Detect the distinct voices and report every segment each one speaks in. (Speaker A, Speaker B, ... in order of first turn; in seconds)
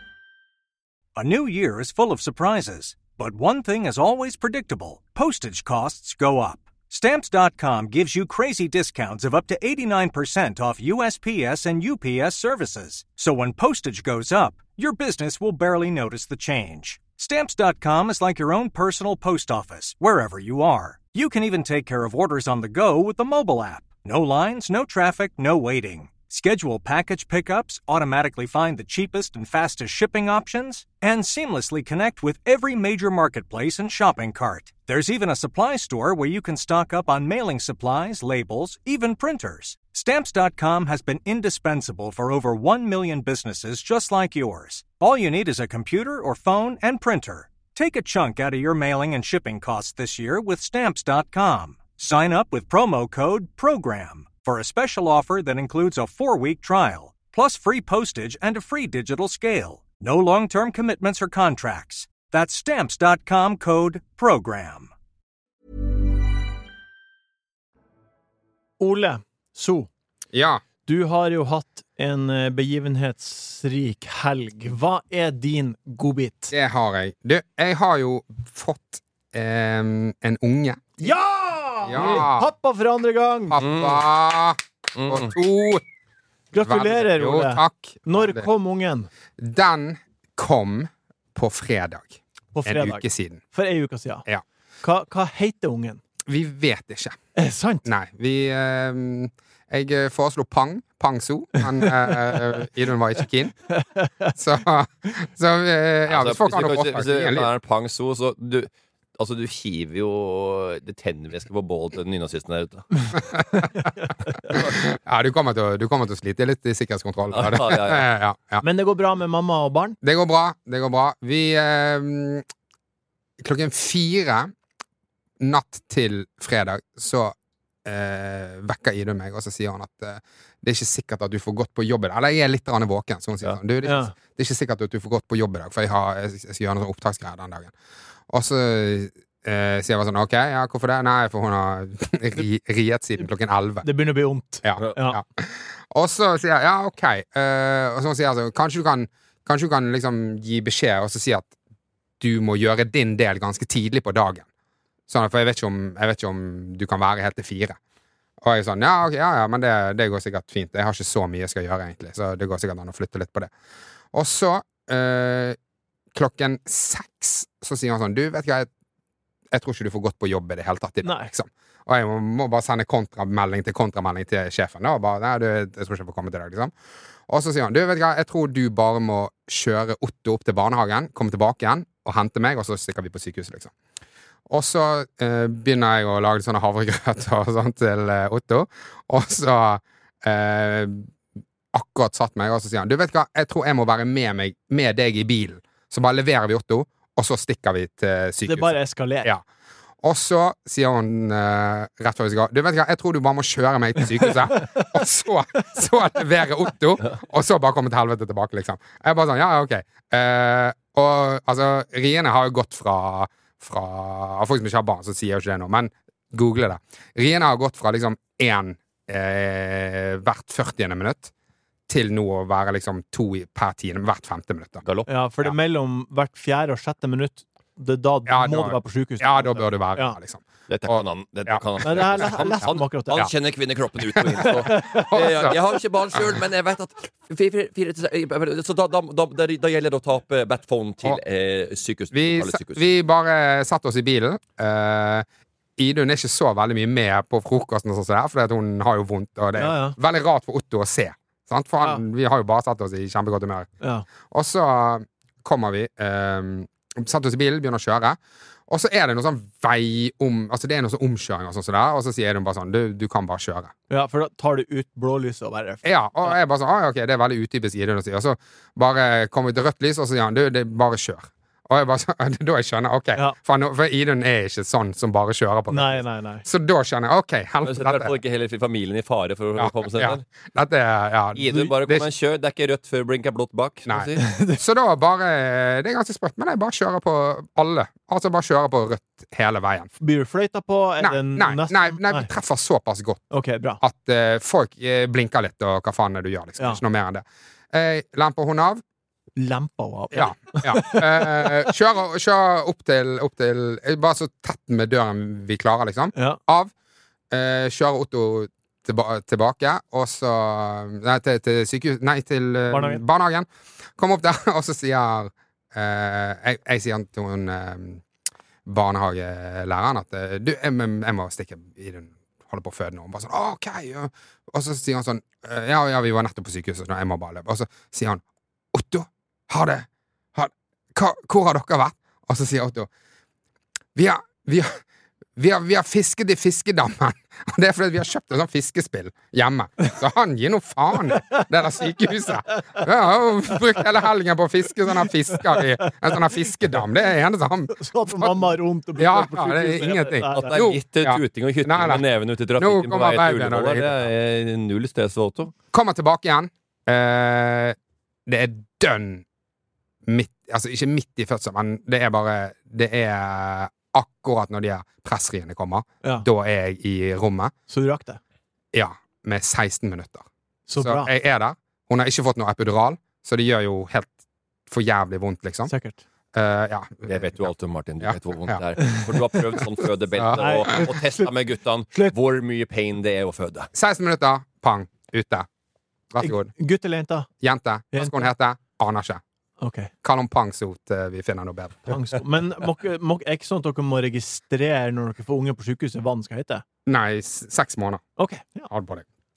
Speaker A: 1.1-64.9
Speaker B: 68.8-69.9, 70.9-76.5, 81.0-83.6, 86.5-89.1, 92.5-94.2, 94.8-96.0, 97.3-97.8, 101.8-102.3, 103.7-104.3, 118.6-120.0, 133.8-134.1, 143.8-145.2, 171.0-171.3, 198.4-199.3, 204.5-204.8, 225.1-230.2, 231.8-233.3, 234.4-235.2, 249.6-250.0, 253.8-254.1, 263.9-266.3, 275.7-276.4, 284.2-284.6, 290.0-292.3, 293.3-293.8, 299.4-301.7, 306.1-306.4, 312.7-313.0, 341.1-341.4, 342.5-342.9, 345.0-346.3, 347.7-350.6, 367.7-368.2, 370.7-371.1, 375.7-376.0, 380.3-381.3, 386.2-387.3, 387.9-388.3, 389.6-389.9, 391.9-396.6, 398.2-398.7
Speaker C: 70.3-70.6, 76.5-81.0, 81.8-82.5, 83.5-85.8, 86.6-88.5, 89.4-93.4, 96.2-97.2, 97.8-103.5, 104.3-107.5, 113.4-113.7, 114.5-118.6, 120.0-122.5, 123.4-124.5, 125.4-137.7, 138.3-143.9, 144.6-151.5, 152.2-154.5, 155.1-157.8, 158.4-163.5, 164.1-165.6, 166.1-168.7, 169.5-176.7, 177.3-183.7, 184.5-191.1, 191.7-199.4, 200.0-221.3, 221.9-224.8, 228.3-232.3, 234.2-235.6, 242.1-245.2, 245.8-253.7, 254.2-263.7, 265.8-278.1, 279.6-282.1, 283.9-289.9, 291.0-293.3, 293.8-298.8, 300.1-306.7, 307.3-318.0, 318.6-332.9, 333.9-334.8, 335.4-352.0, 352.6-354.1, 355.7-359.2, 360.1-367.5, 368.7-374.1, 374.7-375.7, 376.3-377.5, 378.0-378.6, 380.1-380.7, 383.7-385.5, 386.1-386.5, 387.4-389.2, 390.0-392.0, 396.9-398.0, 398.7-399.0
Speaker D: 83.6-84.0, 85.0-85.3, 106.1-113.2, 117.3-118.1, 230.7-242.8, 277.6-280.2, 281.4-284.2, 350.3-355.5, 377.1-383.7